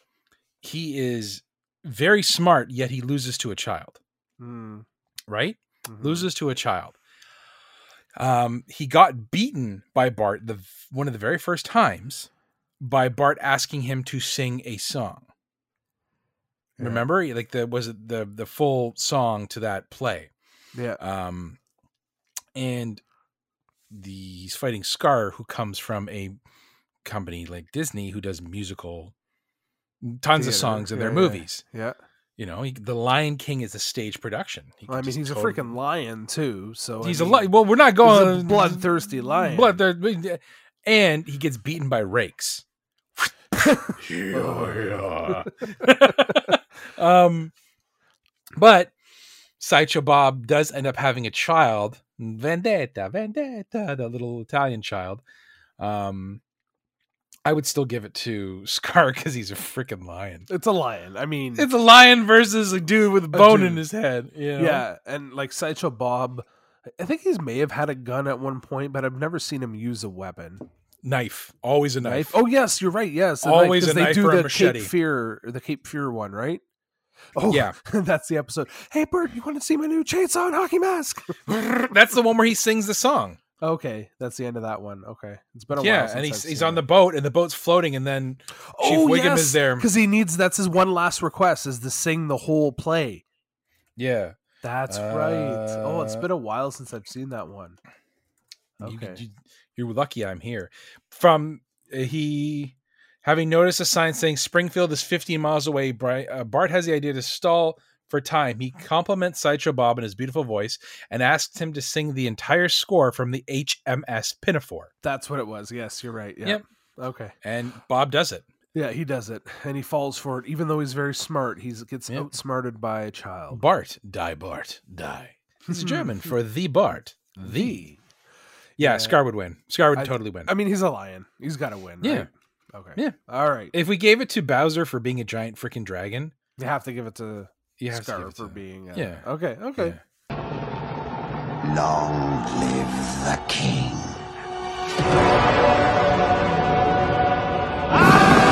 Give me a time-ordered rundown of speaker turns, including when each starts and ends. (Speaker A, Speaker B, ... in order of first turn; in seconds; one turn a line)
Speaker A: 0.6-4.0
Speaker B: 4.4-4.8
Speaker A: 5.3-7.0
Speaker B: 5.8-6.3
Speaker A: 8.2-12.3
Speaker A: 12.8-15.3
Speaker B: 16.8-17.1
Speaker A: 16.8-20.3
Speaker B: 20.7-21.0
Speaker A: 21.0-21.6
Speaker A: 22.5-23.0
Speaker A: 23.9-26.4
Speaker A: 27.0-29.1
Speaker A: 30.0-31.6
Speaker B: 30.3-32.0
Speaker A: 32.4-35.7
Speaker B: 34.9-39.8
Speaker A: 37.0-42.6
Speaker B: 43.6-45.5
Speaker A: 44.0-47.5
Speaker B: 46.0-46.4
Speaker A: 48.5-48.9
Speaker A: 49.6-55.2
Speaker A: 55.8-56.4
Speaker A: 57.4-60.5
Speaker B: 60.5-61.7
Speaker A: 61.5-64.8
Speaker B: 63.3-63.8
Speaker B: 64.6-66.4
Speaker B: 67.0-70.7
Speaker A: 71.0-72.4
Speaker B: 72.0-76.6
Speaker A: 73.4-74.9
Speaker B: 77.3-81.4
Speaker A: 77.5-77.8
Speaker A: 81.5-83.4
Speaker B: 83.6-86.8
Speaker A: 85.7-89.9
Speaker B: 88.7-93.2
Speaker A: 94.0-96.2
Speaker B: 94.6-97.8
Speaker B: 98.8-99.2
Speaker A: 98.8-114.9
Speaker B: 115.0-117.3
Speaker A: 117.4-118.5
Speaker B: 118.7-123.6
Speaker A: 123.5-127.9
Speaker B: 125.7-126.3
Speaker B: 127.3-128.0
Speaker A: 128.8-130.5
Speaker B: 128.8-129.2
Speaker B: 129.9-133.7
Speaker A: 132.0-132.3
Speaker A: 133.7-136.3
Speaker B: 136.6-140.0
Speaker A: 137.8-139.2
Speaker C: 141.6-144.2